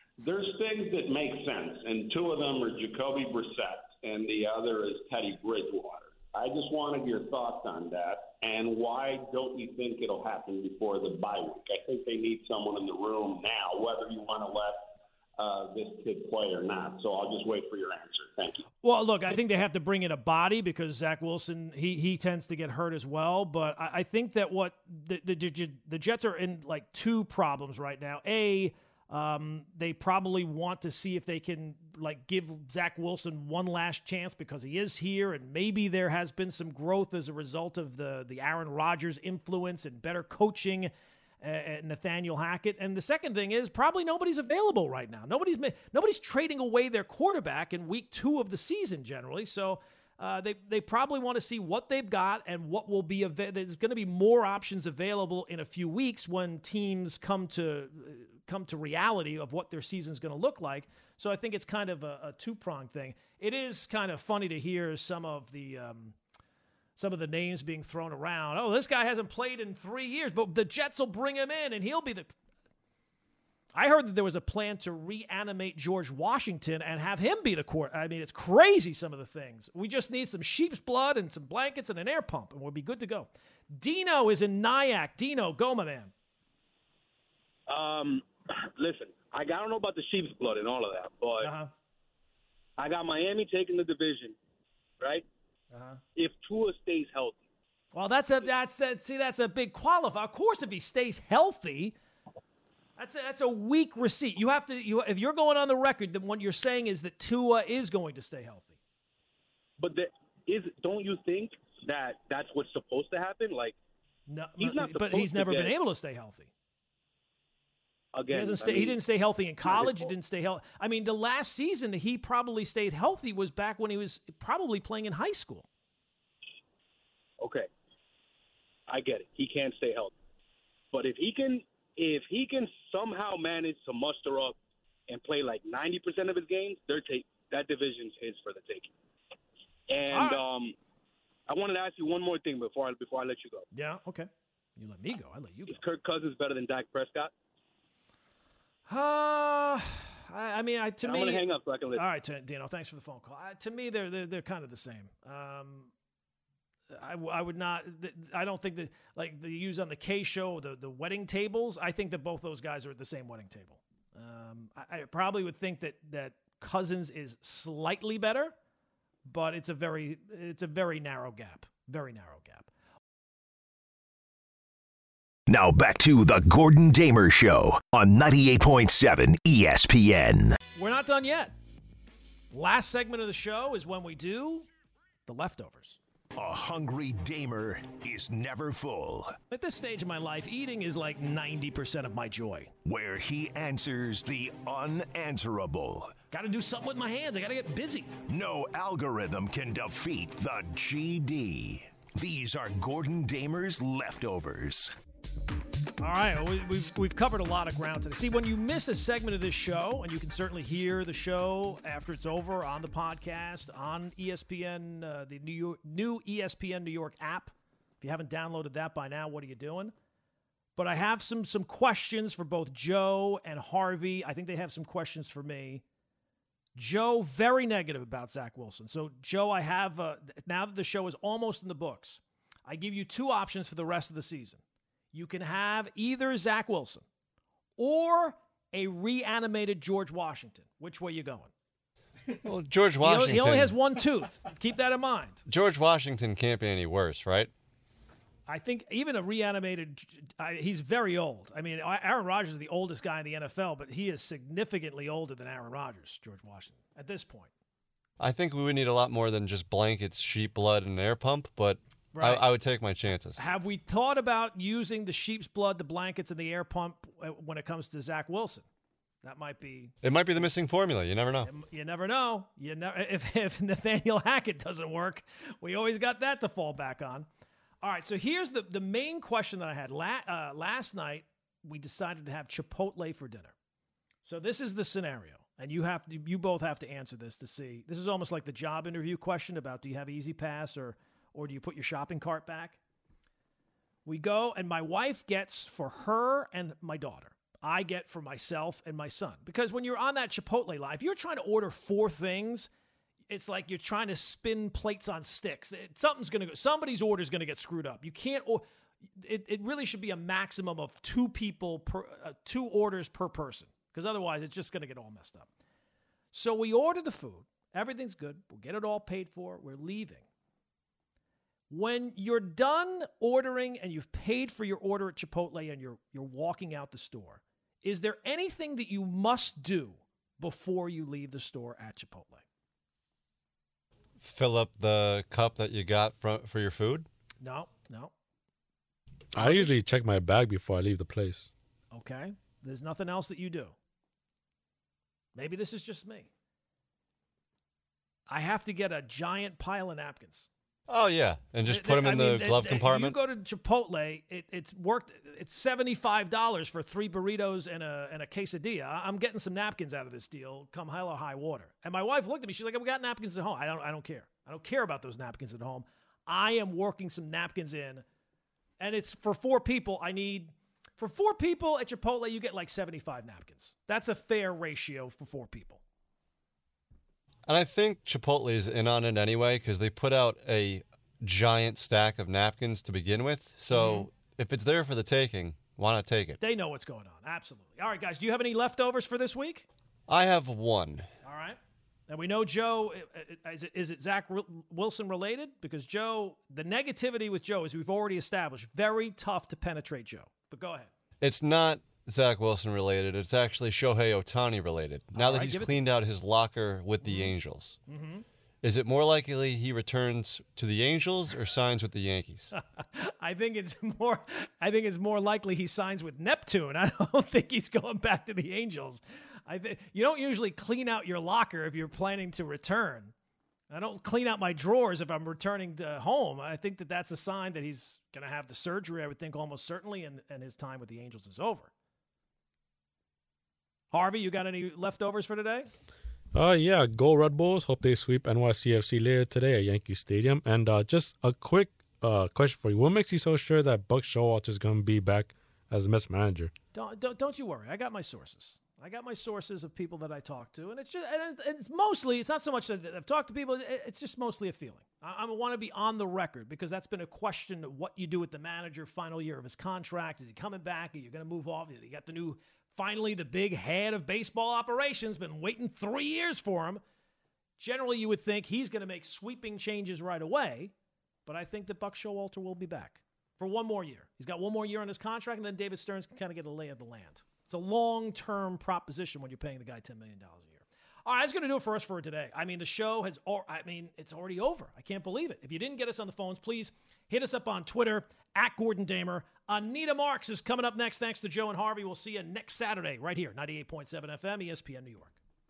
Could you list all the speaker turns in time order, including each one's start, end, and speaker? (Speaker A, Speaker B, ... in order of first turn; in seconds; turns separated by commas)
Speaker A: 0.2-18.7, Speaker B: 18.8-66.2, Speaker B: 67.0-72.3, Speaker B: 73.7-86.1, Speaker C: 87.7-91.5, Speaker B: 91.4-91.7, Speaker C: 92.8-94.3, Speaker C: 95.0-95.2, Speaker B: 95.7-96.0, Speaker C: 96.1-97.4, Speaker B: 97.9-102.0, Speaker B: 103.0-108.7, Speaker C: 109.8-113.8, Speaker B: 114.3-116.5, Speaker C: 114.6-115.8, Speaker C: 118.1-119.0, Speaker B: 118.3-125.7, Speaker C: 119.6-120.2, Speaker C: 127.4-127.7, Speaker C: 128.9-130.1, Speaker C: 130.9-134.6, Speaker C: 135.1-138.9, Speaker C: 139.9-140.7, Speaker B: 140.1-140.4, Speaker C: 141.5-143.7, Speaker B: 143.7-145.8, Speaker C: 145.7-147.3, Speaker B: 148.9-155.9, Speaker C: 151.0-152.0, Speaker B: 156.9-168.5, Speaker B: 169.3-172.7, Speaker D: 175.5-180.6, Speaker B: 180.8-181.5, Speaker B: 182.5-184.7, Speaker B: 185.2-186.0, Speaker D: 186.3-189.4, Speaker B: 189.5-192.7, Speaker D: 192.8-196.2, Speaker B: 196.3-198.1, Speaker D: 198.3-204.9, Speaker B: 206.0-219.9, Speaker B: 220.8-225.8, Speaker B: 226.8-234.6, Speaker B: 235.1-237.0, Speaker B: 237.8-241.5, Speaker E: 242.4-243.8, Speaker B: 243.0-245.4, Speaker E: 245.5-247.5, Speaker B: 248.5-257.5, Speaker E: 258.2-263.4, Speaker B: 262.1-262.4, Speaker B: 263.4-268.6, Speaker B: 269.2-269.9, Speaker E: 270.0-271.5, Speaker B: 271.4-277.3, Speaker B: 277.8-283.5, Speaker B: 284.2-292.8, Speaker B: 294.1-302.7, Speaker B: 303.3-315.5, Speaker B: 316.3-320.2, Speaker B: 321.7-332.4, Speaker E: 334.2-337.1, Speaker B: 337.4-338.1, Speaker F: 339.3-341.5, Speaker B: 339.4-339.7, Speaker B: 341.9-343.7, Speaker B: 345.3-346.3, Speaker B: 348.3-350.5, Speaker E: 350.9-353.2, Speaker B: 351.7-368.0, Speaker B: 368.8-375.8, Speaker E: 377.5-386.4, Speaker B: 383.7-384.1, Speaker B: 386.4-389.6, Speaker E: 390.1-391.1, Speaker B: 391.2-400.9, Speaker E: 401.2-407.8, Speaker B: 405.1-405.8, Speaker B: 407.0-407.3, Speaker B: 407.9-408.2, Speaker E: 408.6-412.5, Speaker B: 412.5-423.1, Speaker B: 423.7-431.7, Speaker B: 433.9-435.7, Speaker F: 436.3-446.5, Speaker B: 446.7-466.8, Speaker B: 467.6-470.7, Speaker B: 471.3-495.1